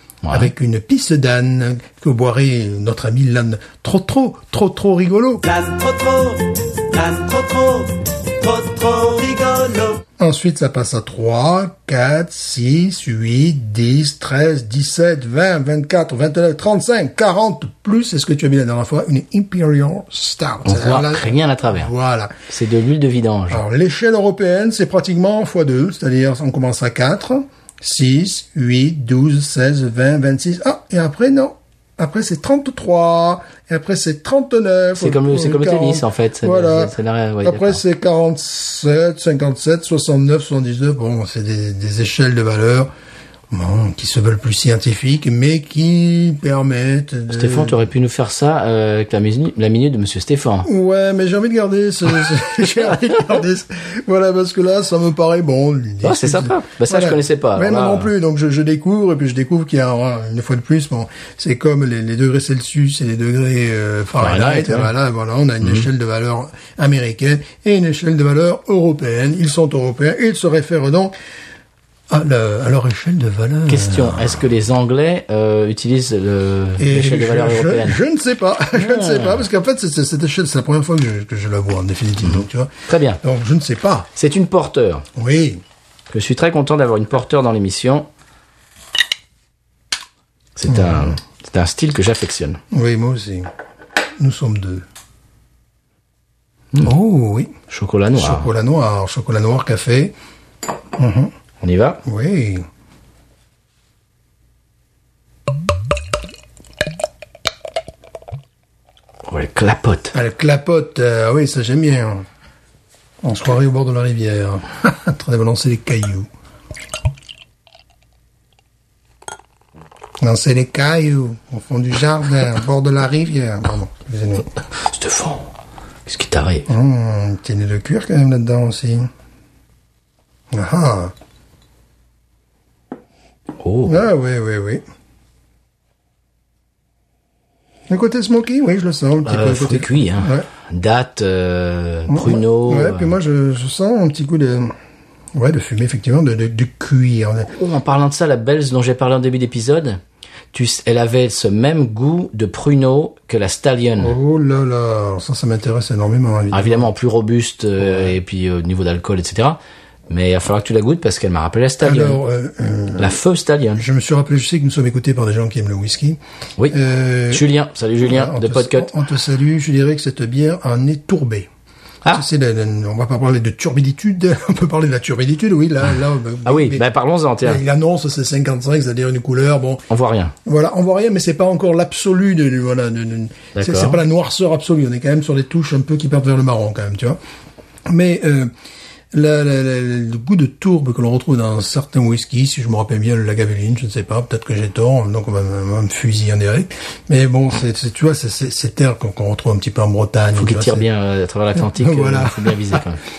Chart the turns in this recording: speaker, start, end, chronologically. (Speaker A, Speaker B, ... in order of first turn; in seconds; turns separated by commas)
Speaker A: 0.2-0.5, Speaker B: 0.3-5.4, Speaker C: 5.4-10.0, Speaker B: 10.2-22.4, Speaker A: 20.6-21.9, Speaker A: 22.5-23.6, Speaker B: 23.5-42.9, Speaker A: 35.0-37.8, Speaker B: 43.5-47.9, Speaker A: 47.3-50.7, Speaker B: 50.6-71.1, Speaker A: 56.0-58.1, Speaker A: 64.2-64.9, Speaker B: 72.1-74.5, Speaker A: 73.7-78.0, Speaker B: 76.8-84.1, Speaker A: 78.8-79.4, Speaker A: 82.2-83.2, Speaker A: 84.2-85.1, Speaker B: 85.2-85.6, Speaker A: 86.1-88.1, Speaker A: 90.6-92.6, Speaker B: 90.7-91.2, Speaker B: 92.7-93.5, Speaker B: 94.2-94.9, Speaker B: 96.8-97.6, Speaker A: 97.7-98.5, Speaker B: 98.2-100.2, Speaker B: 101.0-101.3, Speaker A: 101.6-102.0, Speaker B: 102.0-102.7, Speaker A: 109.3-110.1, Speaker B: 110.1-112.3, Speaker B: 113.2-116.3, Speaker B: 120.2-124.5, Speaker A: 124.8-125.5, Speaker A: 126.1-126.7, Speaker B: 126.7-129.1, Speaker B: 130.5-131.1, Speaker A: 133.6-134.1, Speaker B: 133.9-134.8, Speaker B: 137.9-140.5, Speaker A: 139.3-143.1, Speaker B: 142.1-144.8, Speaker B: 145.3-147.5, Speaker A: 147.6-150.0, Speaker A: 150.5-154.2, Speaker B: 154.0-156.9, Speaker A: 156.5-162.2, Speaker B: 157.8-158.2, Speaker B: 161.8-163.2, Speaker A: 163.0-163.8, Speaker B: 163.8-167.5, Speaker A: 167.3-168.9, Speaker B: 168.0-171.5, Speaker B: 172.1-176.8, Speaker A: 176.4-177.6, Speaker B: 177.4-179.8, Speaker A: 179.9-180.3, Speaker B: 180.4-187.2, Speaker A: 183.6-184.0, Speaker B: 187.9-188.5, Speaker B: 189.1-200.8, Speaker A: 200.4-203.0, Speaker B: 201.6-202.8